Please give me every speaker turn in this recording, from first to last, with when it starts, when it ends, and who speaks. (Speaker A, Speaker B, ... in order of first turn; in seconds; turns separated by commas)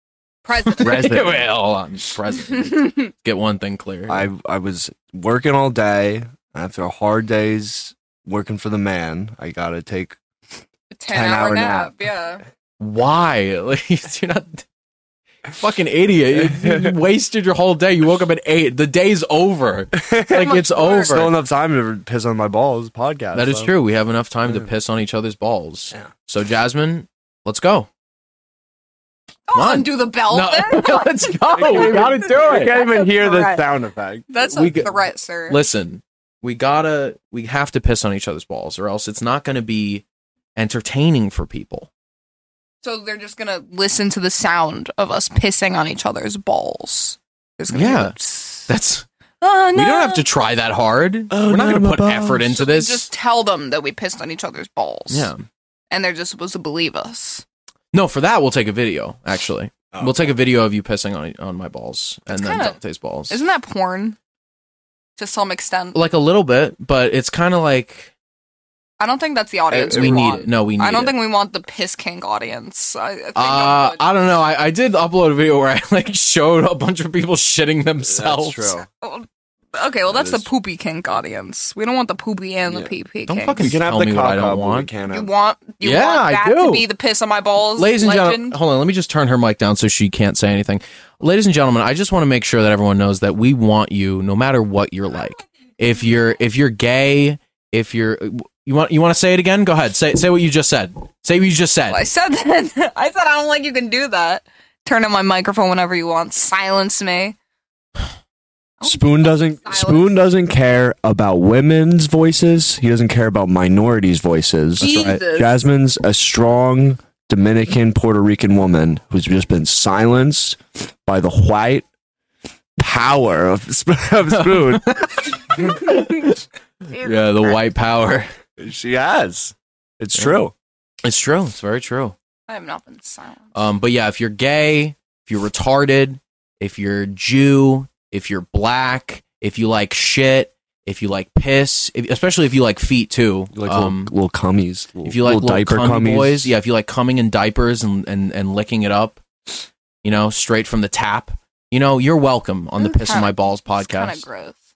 Speaker A: 0.5-1.4, Speaker B: 0.8-4.3, Speaker C: 0.8-1.4, Speaker A: 2.5-3.1, Speaker C: 4.1-10.2, Speaker A: 10.9-12.4, Speaker C: 11.1-11.9, Speaker B: 12.8-14.7, Speaker B: 15.5-21.3, Speaker C: 16.3-16.9, Speaker C: 19.9-23.7, Speaker A: 20.4-21.2, Speaker B: 23.3-27.9, Speaker A: 29.5-33.6, Speaker B: 29.5-32.8, Speaker C: 31.5-34.9, Speaker A: 34.3-35.7, Speaker B: 34.5-34.9, Speaker B: 35.5-40.0, Speaker B: 40.6-41.9, Speaker A: 42.8-48.7, Speaker B: 47.7-48.1, Speaker B: 48.7-49.1, Speaker A: 49.4-50.3, Speaker B: 49.7-53.1, Speaker C: 51.3-52.6, Speaker A: 52.6-55.3, Speaker B: 55.1-55.4, Speaker A: 55.9-57.4, Speaker B: 57.9-63.4, Speaker C: 59.9-60.4, Speaker A: 62.3-62.8, Speaker A: 63.3-64.2, Speaker A: 65.2-66.0, Speaker B: 65.9-68.1, Speaker A: 69.0-74.0, Speaker C: 69.7-70.4, Speaker B: 69.9-71.2, Speaker B: 73.4-78.8, Speaker C: 78.0-78.9, Speaker A: 79.0-83.7, Speaker C: 80.1-80.5, Speaker C: 82.7-82.9, Speaker B: 83.3-84.9, Speaker C: 83.5-85.3, Speaker A: 85.1-88.6, Speaker B: 85.8-86.9, Speaker B: 87.8-102.0, Speaker A: 101.9-107.4, Speaker A: 108.8-110.1, Speaker C: 108.8-121.9, Speaker A: 114.8-115.6, Speaker C: 122.8-125.8, Speaker B: 124.3-126.4, Speaker B: 126.9-128.3, Speaker C: 128.6-130.5, Speaker B: 131.0-132.2, Speaker A: 132.5-133.5, Speaker B: 133.5-144.1, Speaker C: 143.5-146.5, Speaker B: 145.0-149.2, Speaker B: 150.0-154.2, Speaker A: 152.8-154.6